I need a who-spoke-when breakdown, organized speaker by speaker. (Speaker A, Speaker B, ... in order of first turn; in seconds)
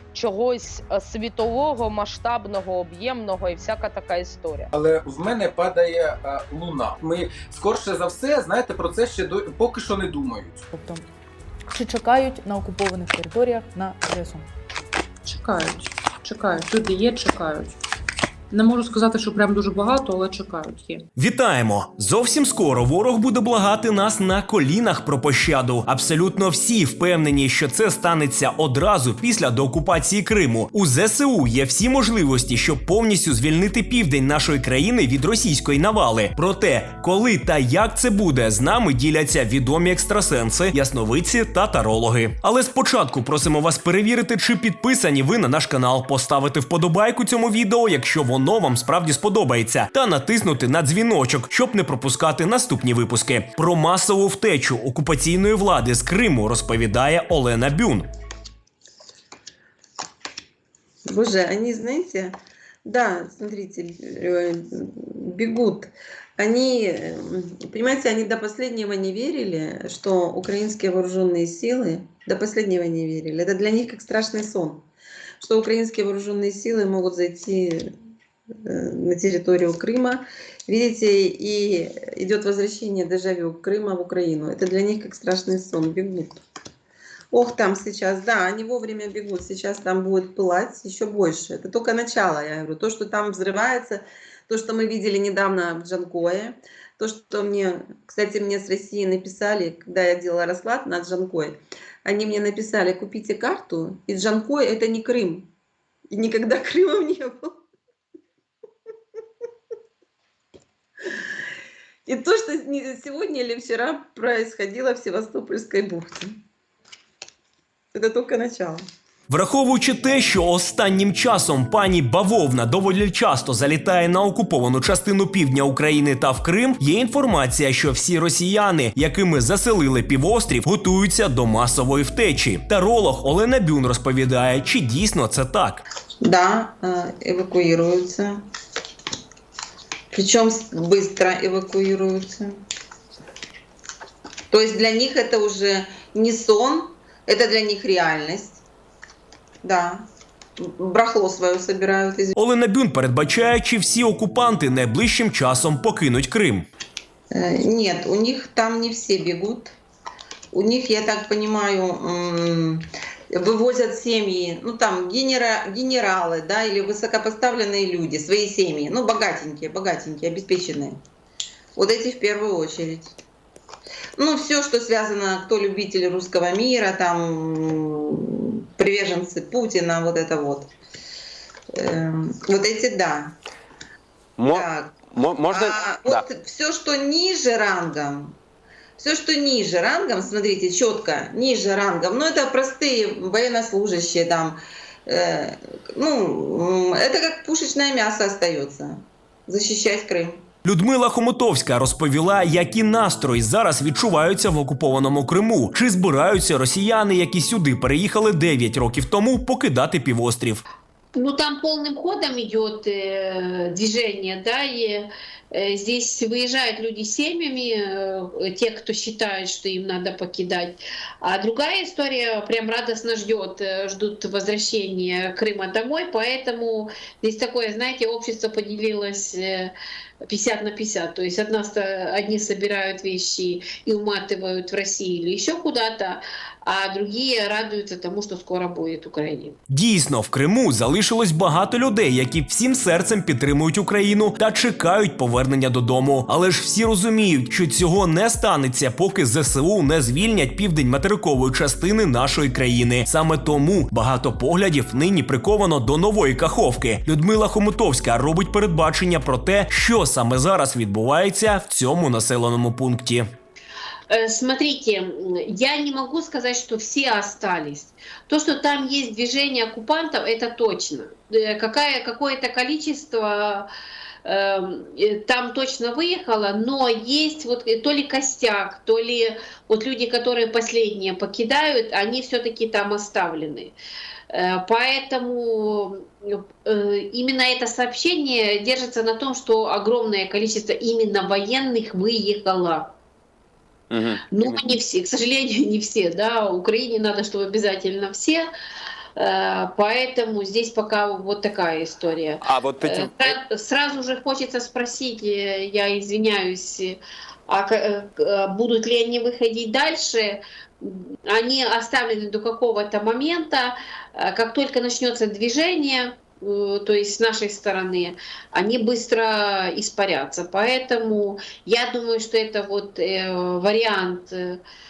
Speaker A: 0.1-4.7
Speaker B: 4.7-10.6
Speaker C: 10.7-11.0, 11.7-14.4
Speaker D: 15.2-17.8, 18.5-21.1
Speaker E: 21.2-58.1, 119.3-135.8, 152.3-156.7, 200.6-210.6, 239.7-263.2
Speaker F: 61.1-74.9, 75.4-77.9, 78.7-86.4, 87.3-105.5, 106.1-107.6, 112.0-116.4, 117.9-118.8, 136.2-138.4, 140.1-142.5, 144.5-148.6, 149.6-150.1, 150.6-152.3, 157.3-159.8, 160.5-171.0, 171.8-173.2, 174.2-180.7, 181.8-183.3, 184.5-184.9, 185.5-188.3, 189.0-200.4
Speaker G: 184.4-186.2, 293.9-294.7, 302.4-303.4
Speaker H: 211.2-215.1, 215.6-229.7, 230.3-236.2, 236.7-239.5, 264.1-273.6, 274.3-283.7, 284.4-285.9, 286.7-292.9, 294.3-298.4, 299.2-307.0, 307.5-310.4, 311.3-324.3